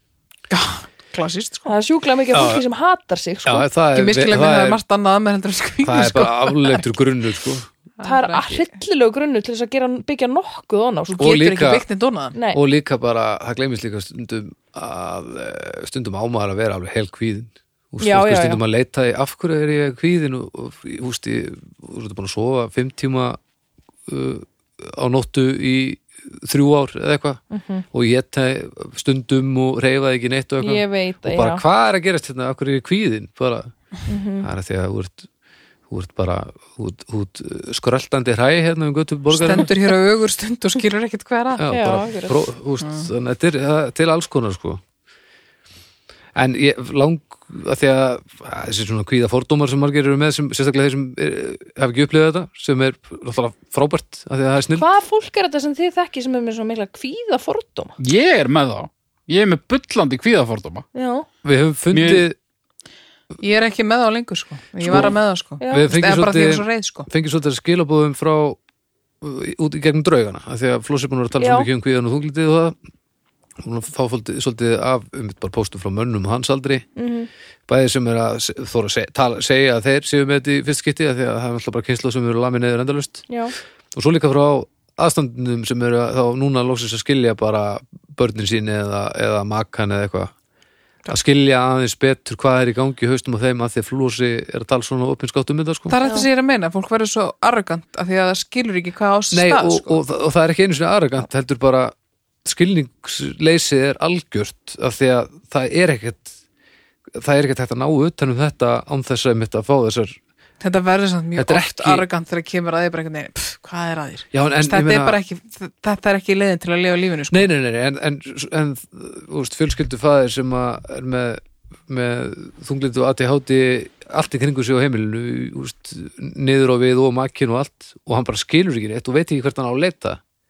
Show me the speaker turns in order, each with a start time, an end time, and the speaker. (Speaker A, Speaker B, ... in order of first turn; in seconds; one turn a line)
Speaker A: 0.5-1.7
Speaker B: 1.7-3.7
Speaker C: 2.3-2.6
Speaker C: 3.5-4.8
Speaker A: 3.9-6.9
Speaker C: 5.8-7.7
Speaker A: 8.0-8.6
Speaker B: 8.0-11.4
Speaker A: 11.1-12.4
Speaker C: 11.2-11.8
Speaker B: 12.3-12.6
Speaker C: 12.5-23.4
Speaker B: 18.0-18.6
Speaker C: 24.1-27.4
Speaker B: 27.5-27.9
Speaker C: 27.9-33.7
Speaker B: 30.6-31.6
Speaker B: 34.1-34.5
Speaker C: 34.4-35.3
Speaker C: 35.9-39.9
Speaker A: 39.3-41.7
Speaker C: 41.6-44.8
Speaker B: 41.6-42.4
Speaker A: 42.8-43.1
Speaker C: 46.4-54.9
Speaker B: 54.8-58.0
Speaker D: 58.0-60.9
Speaker B: 60.9-61.3
Speaker C: 61.4-62.4
Speaker D: 61.9-62.3
Speaker A: 63.4-67.1
Speaker C: 64.8-65.2
Speaker B: 65.6-65.9
Speaker C: 65.7-68.6
Speaker C: 69.2-72.8
Speaker B: 71.4-71.7
Speaker C: 73.6-76.9
Speaker B: 77.0-77.3
Speaker C: 77.7-83.3
Speaker B: 83.3-83.5
Speaker C: 83.9-90.3
Speaker C: 91.1-96.0
Speaker A: 95.9-100.0
Speaker B: 96.0-96.3
Speaker C: 99.3-106.3
Speaker C: 107.1-110.2
Speaker A: 110.6-117.5
Speaker C: 111.4-112.0
Speaker C: 114.3-115.2
Speaker C: 117.3-130.2